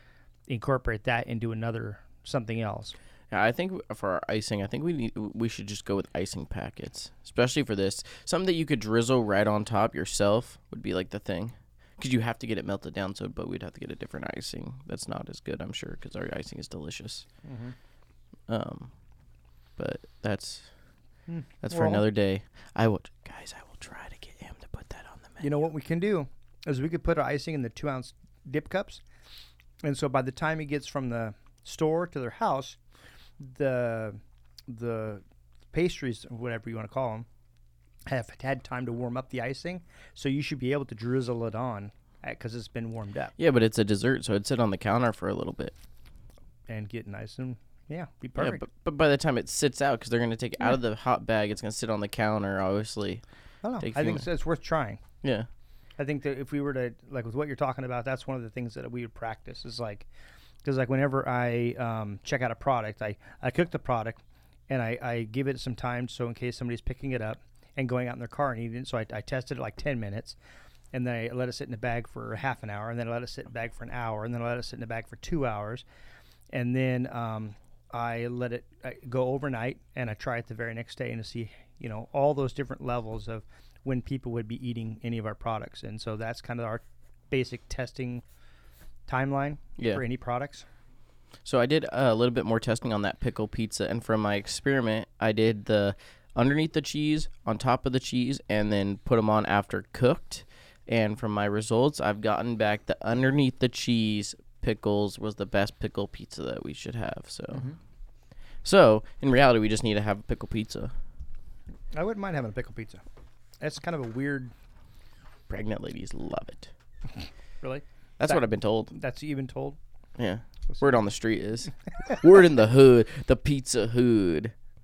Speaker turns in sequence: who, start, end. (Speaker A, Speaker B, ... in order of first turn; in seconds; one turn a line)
Speaker A: 0.5-3.0
Speaker B: 3.3-17.3
Speaker A: 17.4-17.8
Speaker B: 18.5-18.9
Speaker B: 19.8-20.7
Speaker A: 21.3-22.1
Speaker B: 21.6-25.6
Speaker A: 25.4-29.0
Speaker A: 29.8-32.8
Speaker A: 33.4-37.3
Speaker A: 38.1-43.3
Speaker B: 43.4-45.8
Speaker A: 46.7-48.6
Speaker B: 48.4-53.2
Speaker A: 53.6-55.0
Speaker B: 53.8-54.3
Speaker B: 55.2-55.5
Speaker A: 56.0-60.1
Speaker A: 60.6-70.4
Speaker A: 70.9-75.8
Speaker A: 76.5-88.2
Speaker A: 89.1-90.7
Speaker B: 89.8-90.0
Speaker B: 91.5-107.7
Speaker A: 107.5-107.8
Speaker B: 108.6-110.9
Speaker A: 111.9-113.0
Speaker A: 113.6-114.5
Speaker B: 115.5-116.7
Speaker A: 117.6-119.8
Speaker B: 118.2-118.9
Speaker B: 120.2-124.5
Speaker A: 120.7-121.0